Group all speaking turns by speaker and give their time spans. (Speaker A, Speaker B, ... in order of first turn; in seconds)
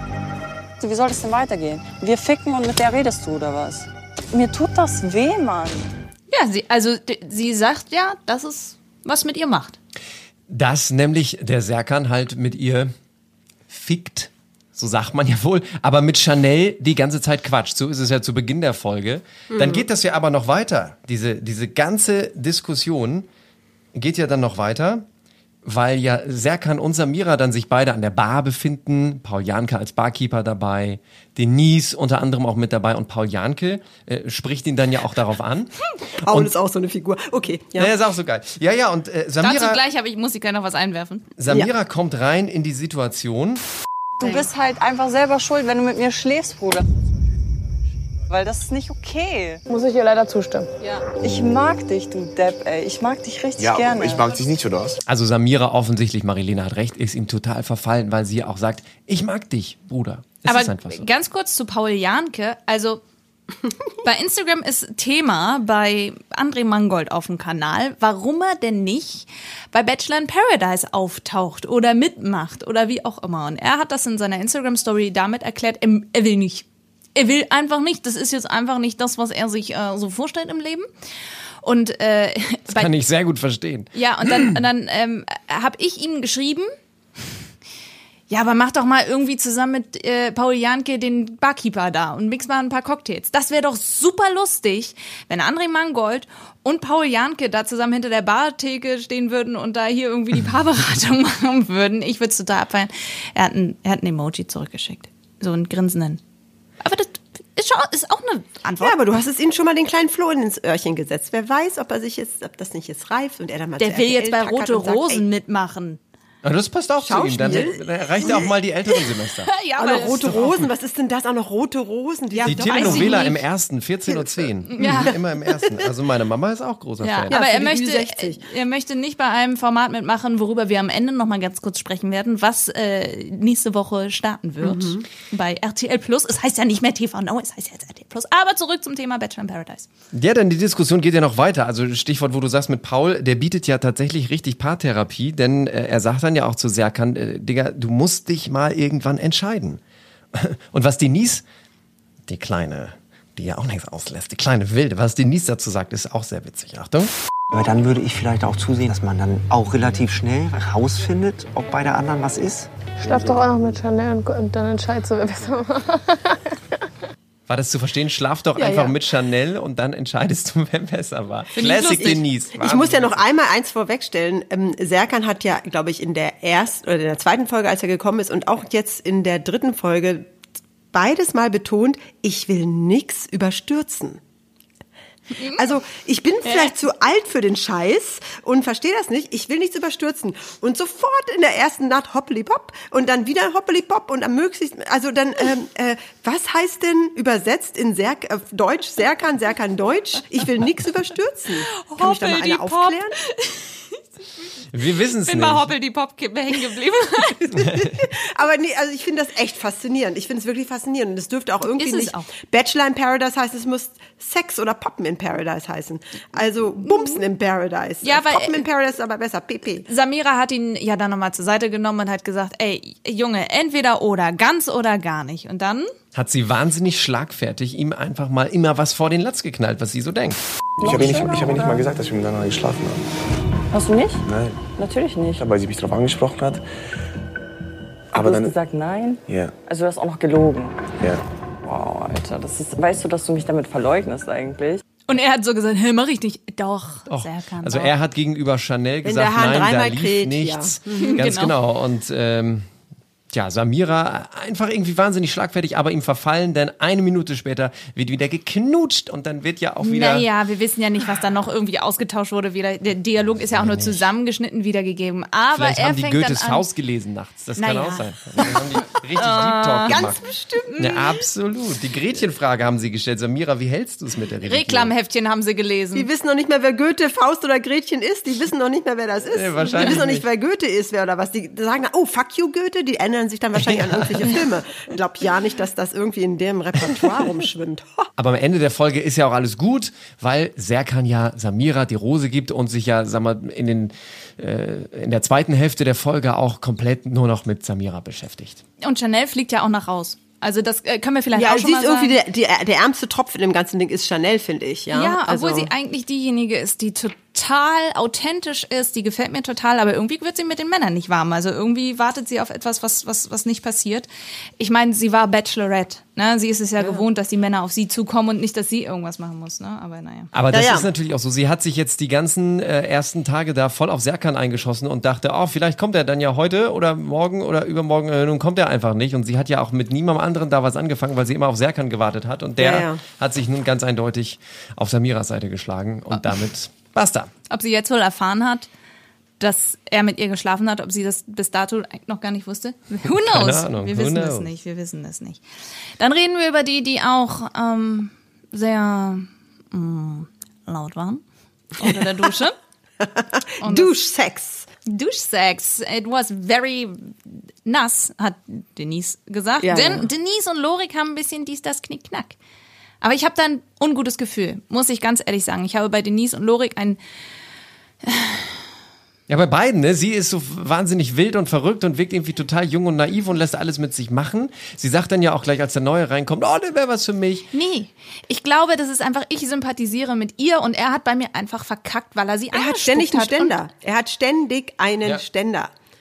Speaker A: 0.8-5.9, 44.2-46.8, 48.3-49.6, 50.8-54.2, 230.8-231.8, 233.7-234.2, 234.8-235.4, 238.2-241.0, 241.6-244.8
Speaker B: 6.3-9.8, 39.4-41.3, 60.5-63.0, 64.0-80.9, 81.6-82.9, 83.9-86.7, 88.3-106.2, 106.8-109.0, 113.8-116.0, 119.5-120.2, 122.3-123.4, 124.7-125.1, 127.0-139.9, 171.5-172.2, 185.3-185.6, 186.4-186.7, 201.8-204.0, 205.2-207.3, 211.8-212.3, 216.8-217.2, 218.0-218.6, 219.8-225.9, 245.1-247.9, 251.0-251.5, 259.8-266.6, 267.6-268.0, 269.1-270.0, 270.7-271.0, 274.4-276.1, 298.8-302.2, 304.9-314.1, 314.6-320.3, 337.5-338.7, 339.4-345.4, 346.0-351.2, 351.8-352.6, 353.6-353.9, 354.9-362.4, 363.0-367.0, 368.0-368.5, 377.5-383.5
Speaker C: 10.5-12.9, 13.7-23.3, 23.9-25.0, 25.6-35.7, 36.2-36.5, 37.8-39.8, 41.4-43.6, 55.0-61.1, 82.7-84.5, 116.4-120.7, 122.4-127.3, 140.1-149.8, 150.3-151.4, 152.3-157.1, 167.5-173.2, 204.7-205.7, 207.6-207.9, 226.1-230.4, 247.1-252.7, 253.3-260.3, 263.3-264.1, 265.5-270.2, 270.8-274.9, 279.3-280.2, 283.5-284.4, 288.2-298.6, 320.3-337.3, 343.1-344.5, 369.3-377.5
Speaker D: 19.5-19.8, 36.2-37.9, 108.8-115.2, 117.0-118.5, 119.8-123.3, 124.1-125.8, 127.3-128.4, 134.6-135.1, 171.8-180.3, 180.9-184.2, 185.5-203.2, 207.3-219.8, 249.0-251.2, 269.9-271.1, 275.9-288.1, 301.3-305.7, 320.5-320.9, 332.6-333.0, 353.0-354.7, 359.6-360.1, 382.5-385.7
Speaker E: 49.7-50.7, 163.0-166.3
Speaker F: 53.6-54.9, 230.8-233.0, 234.2-234.6, 235.4-236.6, 238.1-238.6, 239.3-239.6
Speaker G: 157.5-162.7